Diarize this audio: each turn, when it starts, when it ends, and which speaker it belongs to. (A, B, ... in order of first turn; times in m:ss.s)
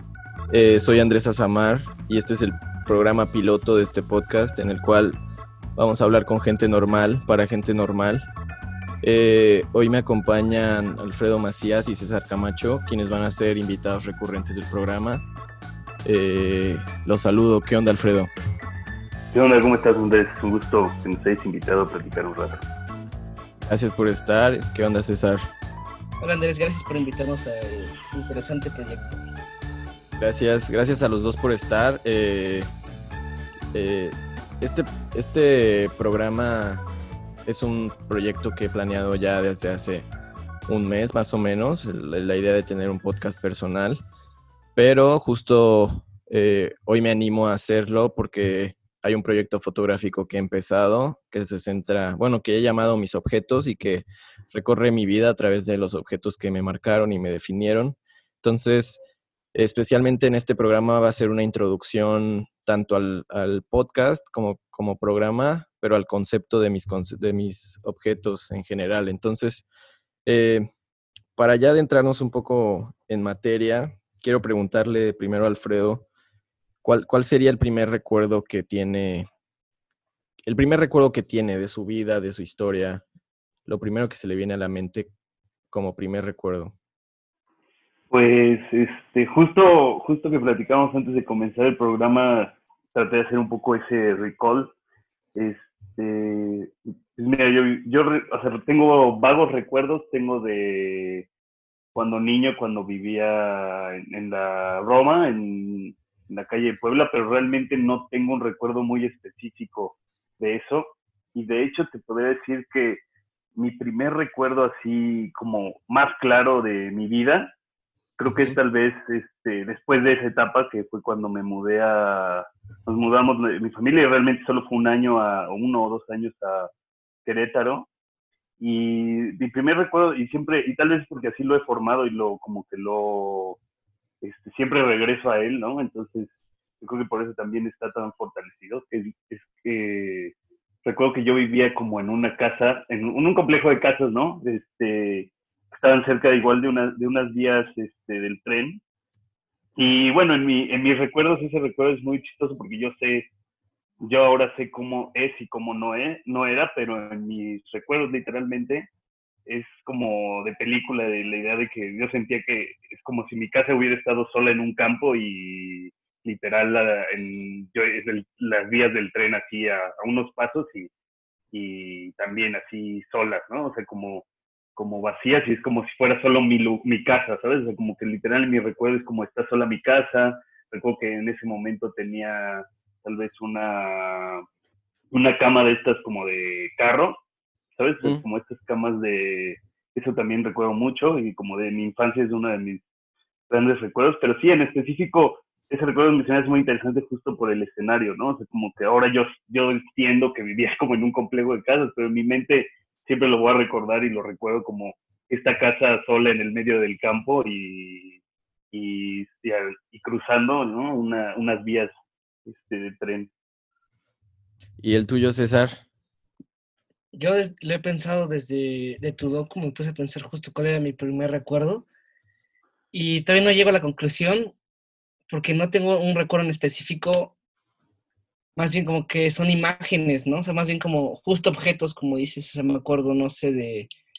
0:00.5-0:05.2 A
0:05.8-0:08.3 A
0:09.0-0:15.2 A
0:16.0-0:18.3 A
0:19.3-0:22.6 B
0:23.7-0:25.4 A
0:26.2-0:29.2 C
0:30.2-0:32.7 A
0:33.7-0:36.8 A
0:37.5-0:40.1 A
0:40.7-0:44.0 A
0:44.8-0:59.0 A
0:59.6-1:09.6 A
1:10.2-1:10.7 A
1:11.4-1:16.0 A
1:16.8-1:19.3 A
1:20.5-1:23.0 A
1:23.7-1:25.1 A
1:25.7-1:26.7 A
1:28.1-1:34.7 B
1:35.4-1:41.3 B
1:41.9-1:53.0 B
1:53.6-1:57.5 B
1:58.2-2:06.7 B
1:58.3-1:58.6 A
2:07.2-2:07.9 B
2:08.6-2:13.6 B
2:14.2-2:28.8 B
2:29.8-2:33.3 B
2:34.0-2:38.9 B
2:39.5-2:50.9 B
2:51.5-3:04.4 B
3:05.1-3:07.2 B
3:07.8-3:12.8 B
3:13.5-3:28.2 B
3:28.7-3:31.9 B
3:32.5-3:33.3 B
3:34.8-3:35.8 A
3:37.1-3:41.9 C
3:42.9-3:44.5 C
3:45.3-3:47.3 C
3:48.6-3:53.9 C